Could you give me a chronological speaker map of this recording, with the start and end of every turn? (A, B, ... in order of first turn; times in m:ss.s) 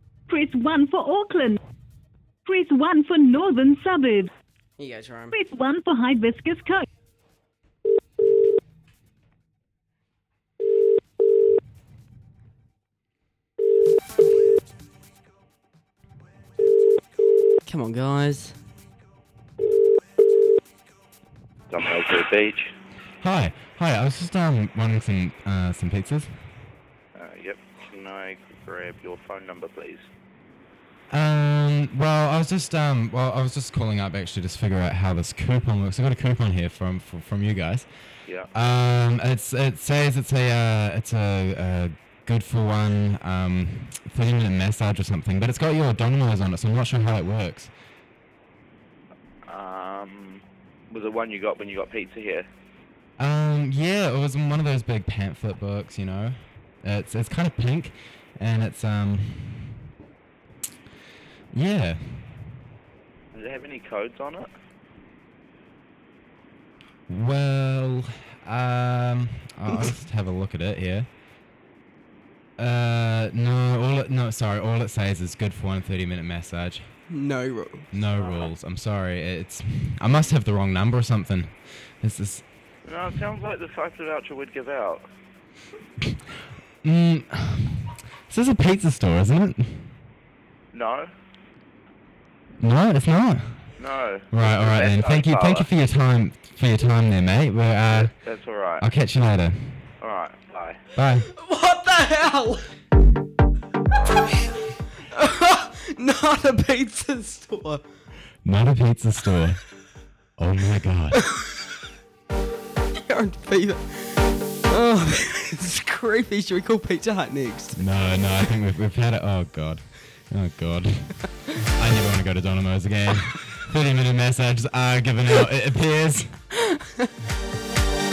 0:00.3-0:01.6 A
0:02.4-0:04.3 A
0:04.8-0:05.4 B
0:05.3-0:06.9 A
0:17.7-0:18.6 B
0:21.7-0:22.7 C
0:23.2-0:26.3 D
0:27.2-0:30.1 C
0:31.1-0:37.9 D
0:38.5-0:47.7 D
0:49.5-0:52.5 C
0:53.2-0:59.8 D
1:01.5-1:02.3 D
1:03.3-1:04.5 C
1:07.1-1:11.1 D
1:12.6-1:16.8 D
1:17.1-1:17.9 B
1:17.9-1:22.4 D
1:18.2-1:18.5 C
1:22.9-1:25.0 C
1:26.8-1:29.9 D
1:30.7-1:31.1 C
1:32.6-1:33.6 D
1:33.8-1:35.7 C
1:34.3-1:38.1 D
1:37.9-1:38.8 C
1:38.8-1:39.8 D
1:40.0-1:40.8 C
1:41.0-1:41.3 D
1:41.2-1:42.7 B
1:45.0-1:47.8 B
1:48.4-1:49.6 D
1:50.4-1:51.2 D
1:51.2-1:51.5 B
1:53.0-1:57.8 B
1:57.8-2:06.3 D